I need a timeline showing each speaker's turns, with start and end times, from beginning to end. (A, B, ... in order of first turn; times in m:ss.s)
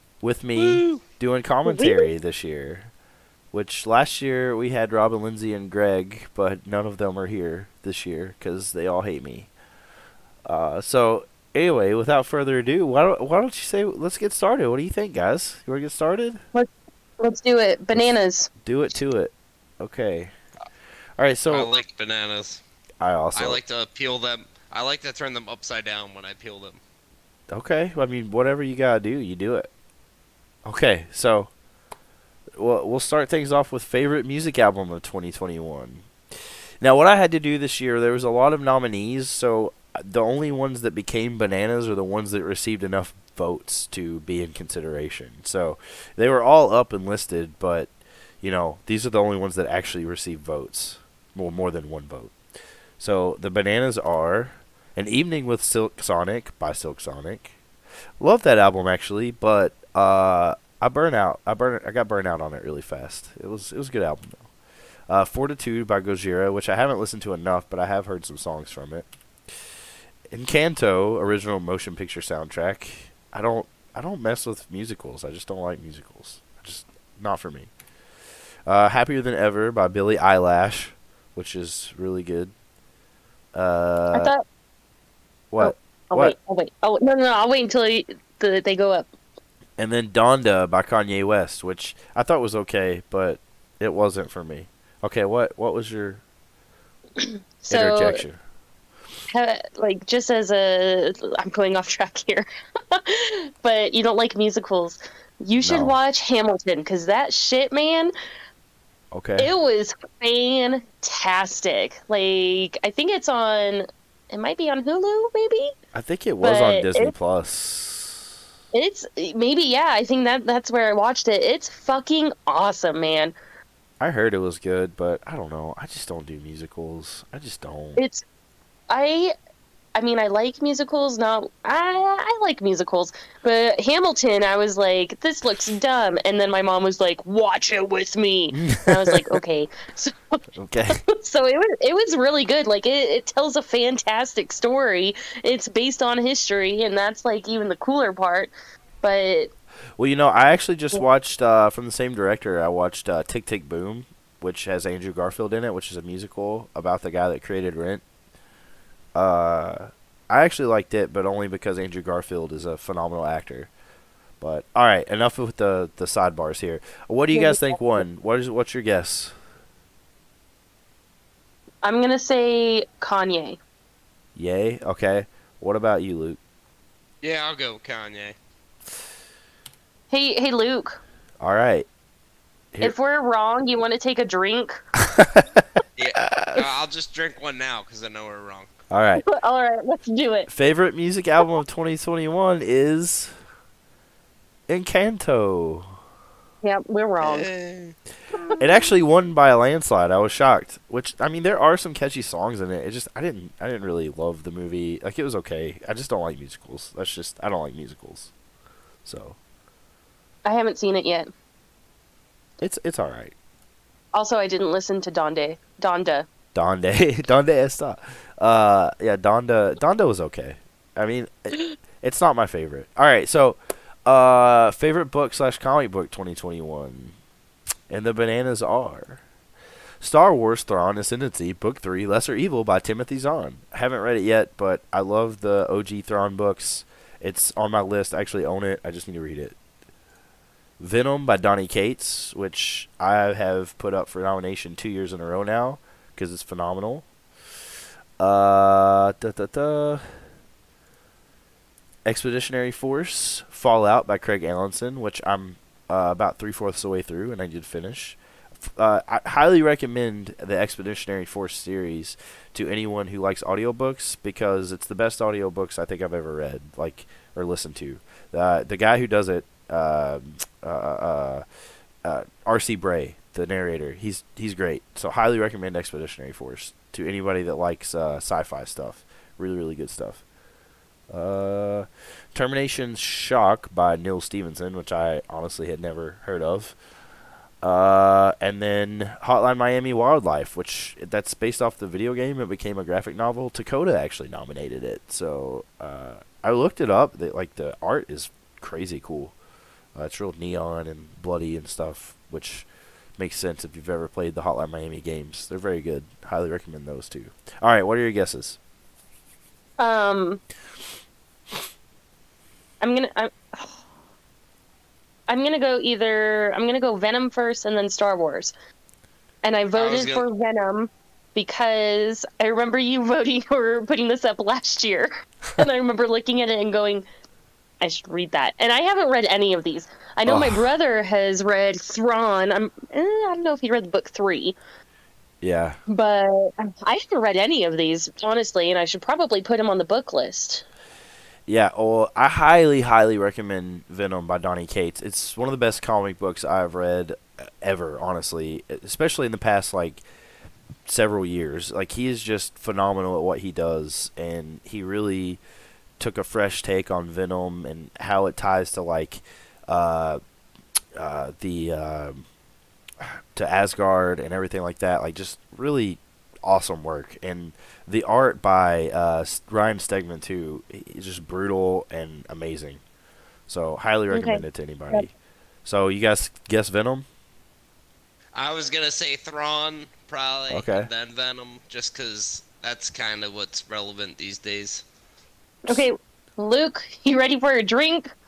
0:00.2-0:02.9 A
0:00.6-0:01.0 B
0:01.6-0:02.0 C
0:03.5-0:09.5 A
0:10.5-0:16.4 A
0:17.2-0:18.5 C
0:17.9-0:20.3 A
0:21.2-0:21.8 A
0:21.5-0:22.6 B
0:23.0-0:23.6 A
0:23.3-0:26.8 B
0:27.5-0:29.7 A
0:30.6-0:31.5 A
0:32.6-0:36.1 A
0:36.8-0:47.9 A
0:48.4-0:52.4 A
0:53.0-0:57.5 A
0:58.2-1:04.5 A
1:05.1-1:09.1 A
1:10.3-1:17.7 A
1:18.7-1:22.5 A
1:23.5-1:24.3 A
1:24.1-1:24.4 C
1:25.5-1:26.4 A
1:25.6-1:29.1 C
1:29.8-1:36.2 A
1:37.2-1:38.2 C
1:37.7-1:38.4 A
1:39.3-1:48.1 C
1:45.6-1:46.0 A
1:49.1-1:49.5 A
1:49.4-1:55.7 C
1:55.9-1:58.3 A
1:56.4-1:57.1 C
1:58.7-2:03.3 C
2:04.0-2:08.0 A
2:08.0-2:08.2 C
2:08.9-2:09.3 C
2:10.0-2:20.4 C
2:18.5-2:19.4 A
2:20.6-2:21.0 A
2:21.1-2:28.5 C
2:29.0-2:29.5 C
2:30.0-2:38.0 A
2:39.2-2:43.7 A
2:44.4-2:49.4 A
2:47.3-2:48.0 C
2:51.8-2:53.6 C
2:54.4-2:56.4 A
2:57.2-2:58.4 B
3:00.1-3:01.0 C
3:01.4-3:01.9 A
3:02.8-3:04.8 C
3:05.0-3:05.6 A
3:06.0-3:08.7 B
3:06.2-3:06.6 A
3:08.9-3:09.2 A
3:09.3-3:10.5 C
3:10.5-3:13.3 A
3:14.7-3:16.0 A
3:16.6-3:17.5 C
3:17.2-3:18.0 B
3:18.5-3:18.8 C
3:18.6-3:28.3 A
3:29.0-3:29.4 A
3:30.4-3:31.3 C
3:32.6-3:33.3 A
3:34.1-3:36.3 C
3:36.5-3:47.2 A
3:47.9-3:49.2 A
3:50.0-3:59.6 A
4:00.8-4:07.1 A
4:08.2-4:10.0 A
4:12.1-4:31.4 A
4:32.0-4:40.2 A
4:41.1-4:46.8 A
4:47.6-4:59.4 A
5:00.0-5:08.6 A
5:09.8-5:10.4 C
5:12.8-5:13.8 C
5:15.3-5:18.5 C
5:19.4-5:27.0 C
5:19.7-5:20.2 B
5:27.8-5:34.6 C
5:30.3-5:30.7 A
5:35.4-5:35.8 A
5:35.9-5:40.6 C
5:41.5-5:50.0 A
5:50.9-5:55.4 A
5:56.0-6:00.2 A
6:01.0-6:02.3 A
6:03.0-6:12.8 A
6:13.5-6:15.1 A
6:14.1-6:15.1 C
6:15.6-6:17.1 A
6:18.4-6:24.8 B
6:20.5-6:20.9 A
6:25.7-6:28.1 C